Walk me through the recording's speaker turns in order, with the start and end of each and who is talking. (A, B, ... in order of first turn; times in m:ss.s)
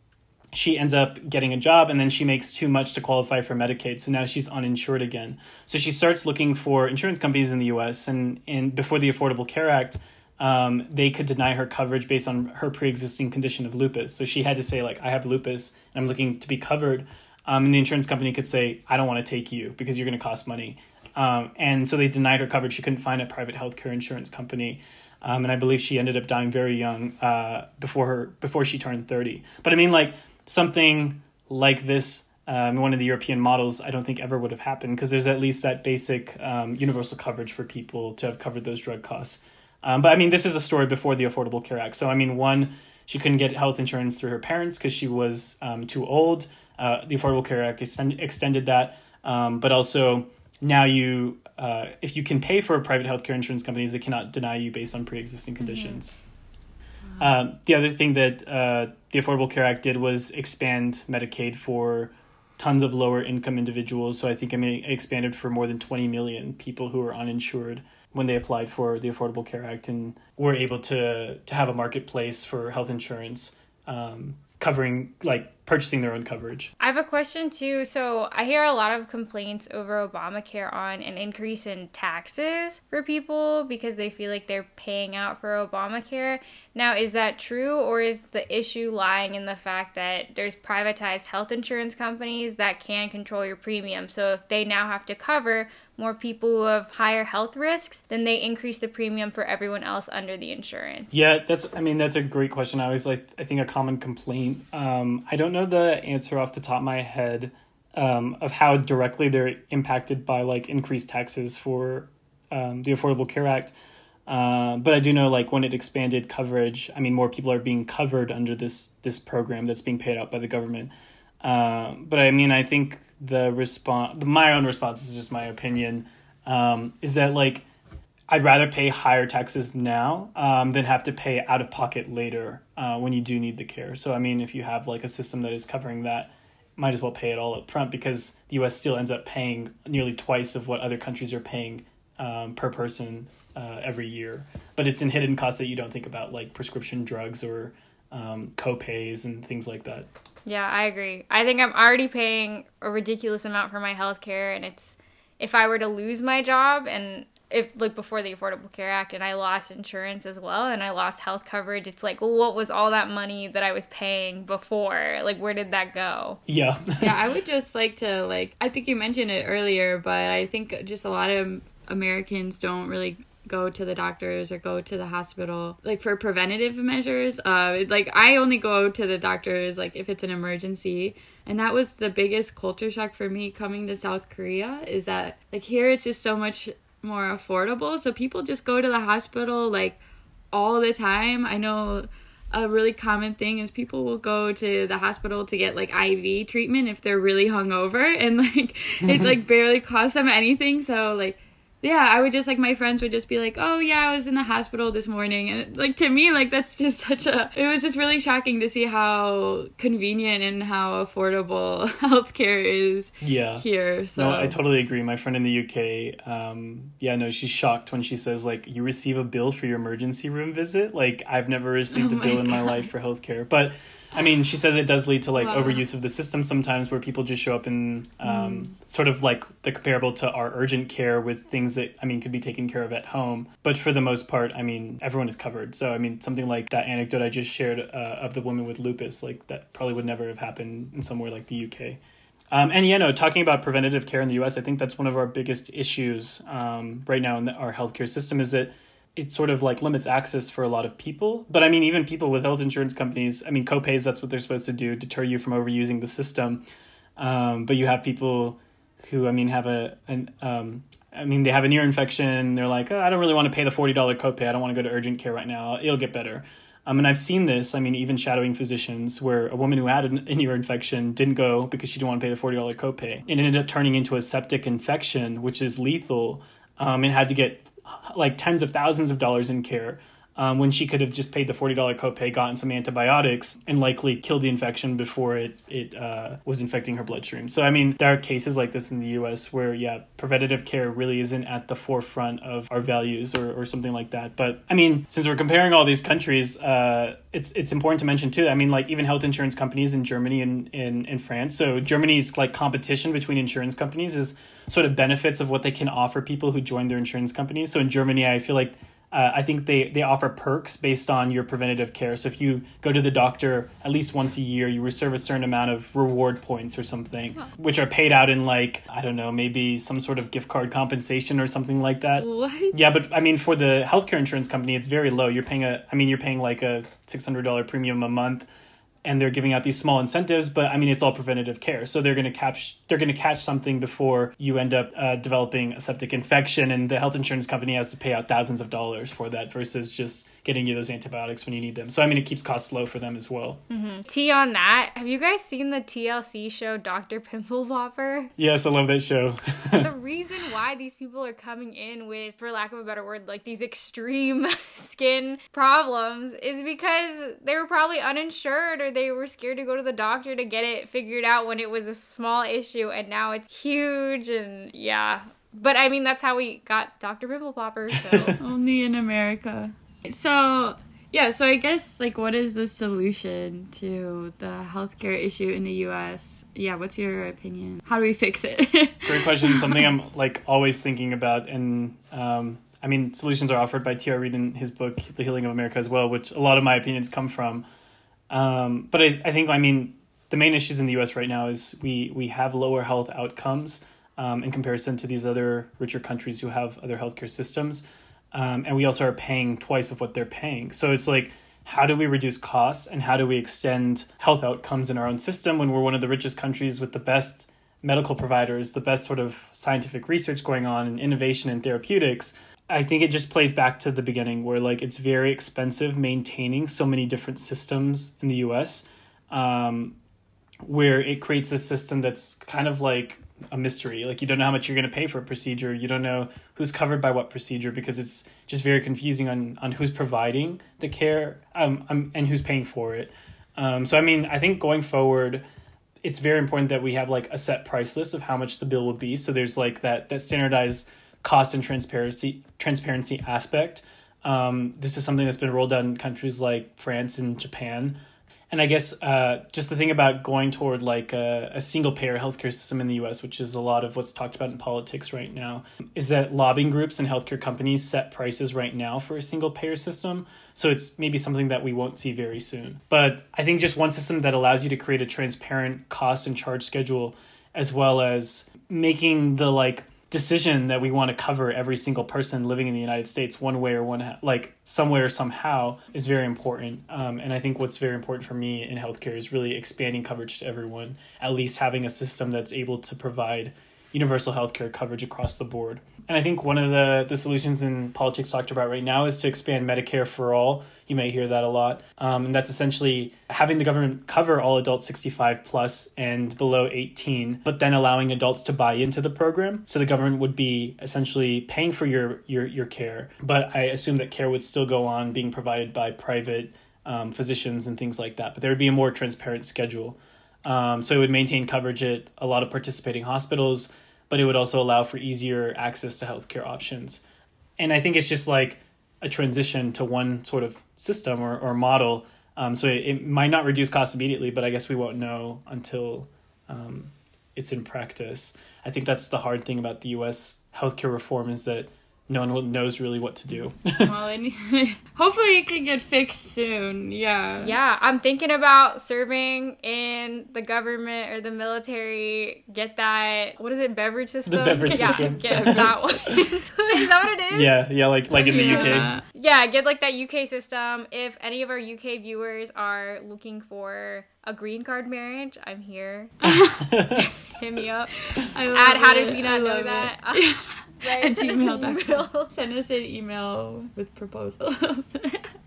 0:00.5-0:56.2 A
0:55.6-0:56.0 B
0:57.2-1:16.7 A
1:16.8-1:41.1 B
1:41.1-1:53.8 A
1:54.3-2:00.9 A
2:01.4-2:07.6 A
2:08.3-2:30.1 A
2:30.5-2:46.4 B
2:46.5-2:47.1 A
2:47.0-3:10.0 C
3:10.5-3:34.6 C
3:33.2-4:02.0 A
3:42.0-3:42.9 C
3:45.4-3:45.8 C
3:48.3-3:48.6 C
4:02.5-4:16.6 A
4:17.2-5:28.5 A
5:22.2-5:22.8 C
5:29.0-5:43.6 A
5:43.7-5:48.3 B
5:48.4-5:49.9 A
5:49.8-6:08.4 B
6:07.9-6:08.4 A
6:08.4-6:19.9 C
6:19.0-6:27.7 A
6:28.3-7:00.0 A
7:00.6-7:15.4 A
7:16.0-7:28.0 A
7:28.5-8:37.0 A
8:37.6-8:53.9 A
8:53.8-8:57.6 C
8:57.4-9:07.5 B
9:04.3-9:06.2 A
9:04.6-9:06.3 C
9:07.3-9:08.9 A
9:08.2-9:09.0 C
9:08.2-9:16.2 B
9:16.2-9:17.1 A
9:16.3-9:16.6 C
9:16.9-9:17.9 B
9:18.1-9:25.3 C
9:18.5-9:22.3 B